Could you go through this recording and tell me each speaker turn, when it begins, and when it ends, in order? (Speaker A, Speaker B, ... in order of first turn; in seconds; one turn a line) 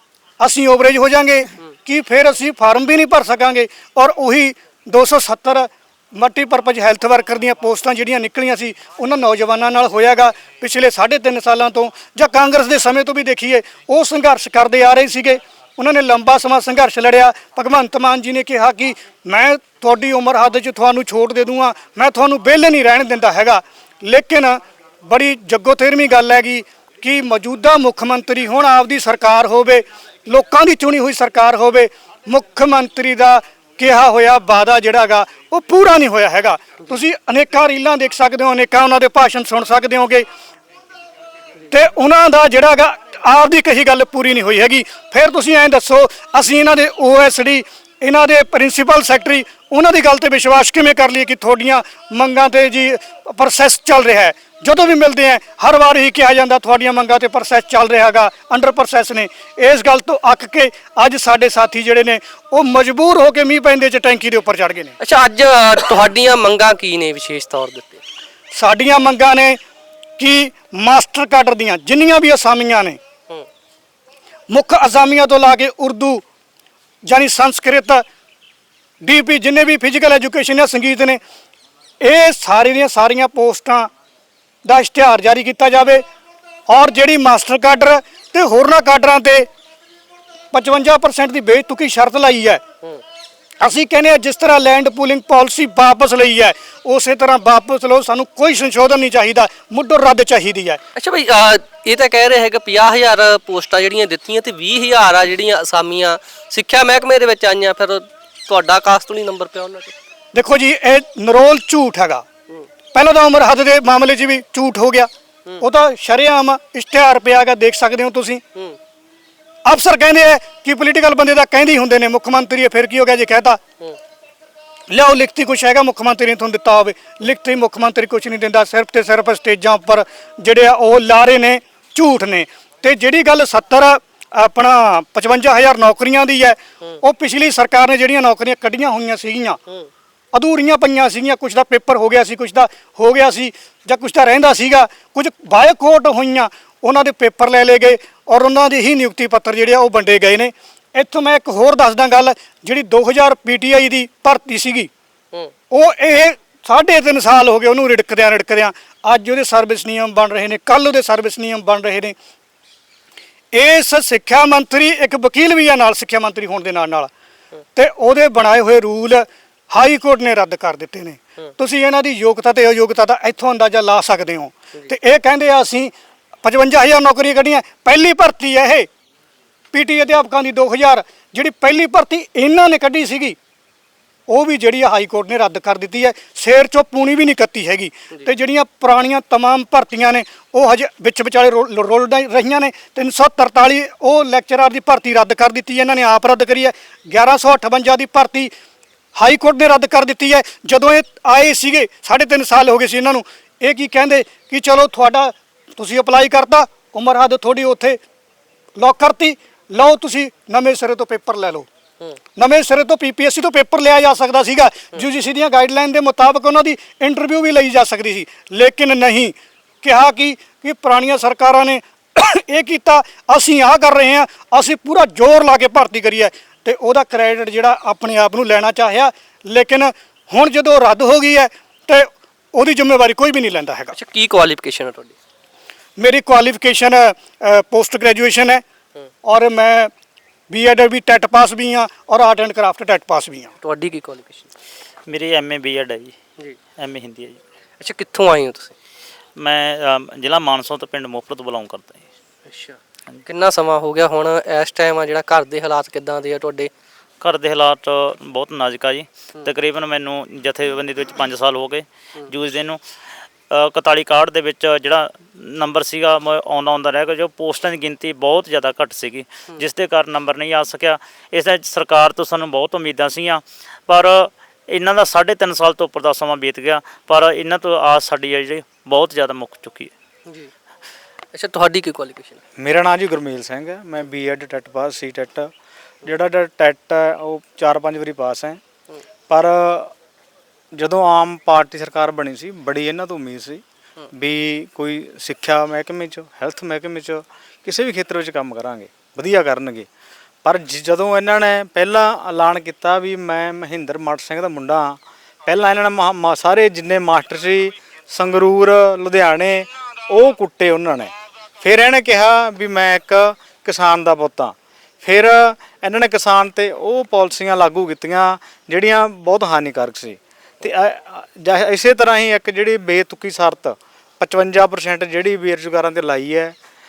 Speaker A: 0.4-40.2
Speaker A: 41.7-65.0
Speaker B: 65.0-68.0
Speaker A: 68.5-69.6
Speaker A: 70.2-73.0
Speaker A: 74.5-76.2
Speaker A: 77.1-78.0
Speaker A: 79.0-81.2
Speaker A: 82.0-83.9
Speaker A: 84.6-86.0
Speaker A: 86.7-89.5
Speaker A: 90.5-92.6
Speaker A: 93.6-100.8
Speaker B: 101.0-110.0
Speaker A: 110.3-112.2
Speaker A: 112.9-118.4
Speaker A: 119.6-123.6
Speaker A: 124.9-139.6
Speaker A: 140.3-154.9
Speaker A: 155.7-162.1
Speaker A: 163.5-167.1
Speaker A: 167.8-175.9
Speaker A: 176.4-178.9
Speaker A: 179.7-183.4
Speaker A: 184.3-198.5
Speaker A: 199.1-208.0
Speaker A: 208.8-211.7
Speaker A: 212.4-234.0
Speaker B: 233.9-235.1
Speaker A: 236.0-238.6
Speaker A: 239.2-239.9
Speaker A: 240.5-243.5
Speaker B: 243.6-244.5
Speaker C: 245.1-246.2
Speaker C: 246.8-247.4
Speaker B: 247.8-248.7
Speaker C: 249.4-252.0
Speaker B: 252.5-256.7
Speaker C: 257.2-262.8
Speaker C: 263.5-279.9
Speaker B: 281.3-282.4
Speaker D: 282.6-285.5
Speaker D: 286.0-288.6
Speaker D: 289.3-289.9
Speaker D: 290.7-299.9
Speaker D: 300.4-326.6